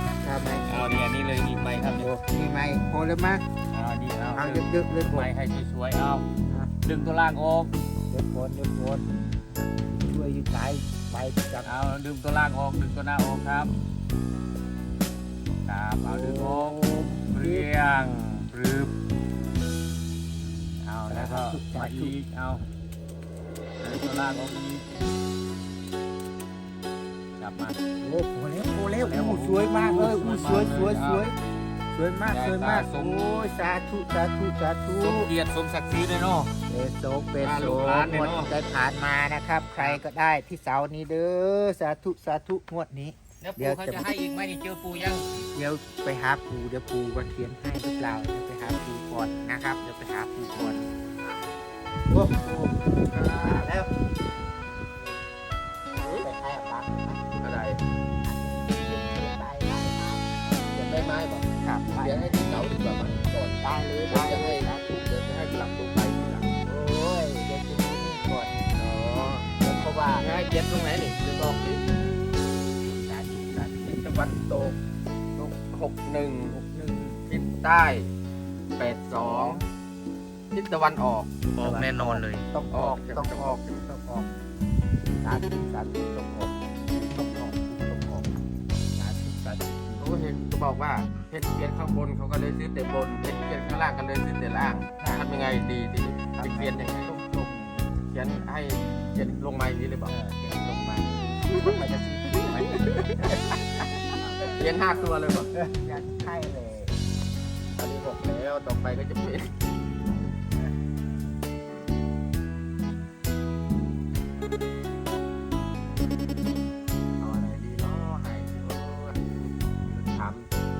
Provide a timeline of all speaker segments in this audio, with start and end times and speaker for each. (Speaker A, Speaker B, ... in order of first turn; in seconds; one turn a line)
Speaker A: 0.2-1.1
Speaker B: 0.7-2.1
Speaker A: 1.6-3.4
Speaker B: 3.7-6.2
Speaker A: 4.3-5.3
Speaker B: 6.8-7.7
Speaker A: 8.1-9.1
Speaker A: 9.8-11.8
Speaker B: 11.6-13.7
Speaker B: 15.7-18.9
Speaker A: 16.0-17.7
Speaker B: 20.8-22.6
Speaker A: 21.1-22.1
Speaker B: 23.8-25.0
Speaker B: 27.4-27.8
Speaker A: 28.0-31.4
Speaker B: 29.0-31.3
Speaker A: 31.9-35.3
Speaker B: 32.3-33.4
Speaker B: 35.0-36.5
Speaker A: 36.7-44.1
Speaker B: 37.4-38.5
Speaker B: 43.4-45.4
Speaker A: 45.5-50.9
Speaker A: 52.1-53.9
Speaker C: 53.1-53.7
Speaker C: 56.0-56.3
Speaker A: 56.2-57.2
Speaker C: 57.4-57.8
Speaker A: 58.2-60.2
Speaker C: 60.8-66.5
Speaker A: 61.6-62.6
Speaker A: 63.6-65.0
Speaker A: 66.6-68.5
Speaker C: 68.8-69.5
Speaker A: 69.6-70.3
Speaker C: 70.2-71.8
Speaker A: 72.8-74.8
Speaker C: 75.4-76.5
Speaker A: 76.5-77.2
Speaker C: 77.3-78.1
Speaker C: 78.8-79.6
Speaker A: 79.1-79.7
Speaker C: 80.5-81.3
Speaker A: 81.6-84.3
Speaker B: 81.6-82.4
Speaker C: 82.7-83.8
Speaker A: 85.2-88.3
Speaker A: 89.0-90.1
Speaker C: 90.0-97.1
Speaker A: 95.0-95.5
Speaker A: 96.3-97.9
Speaker C: 98.0-100.1
Speaker A: 100.1-103.9
Speaker C: 102.8-103.3
Speaker C: 104.4-105.5
Speaker A: 105.5-106.9
Speaker C: 107.8-109.6
Speaker C: 117.2-120.5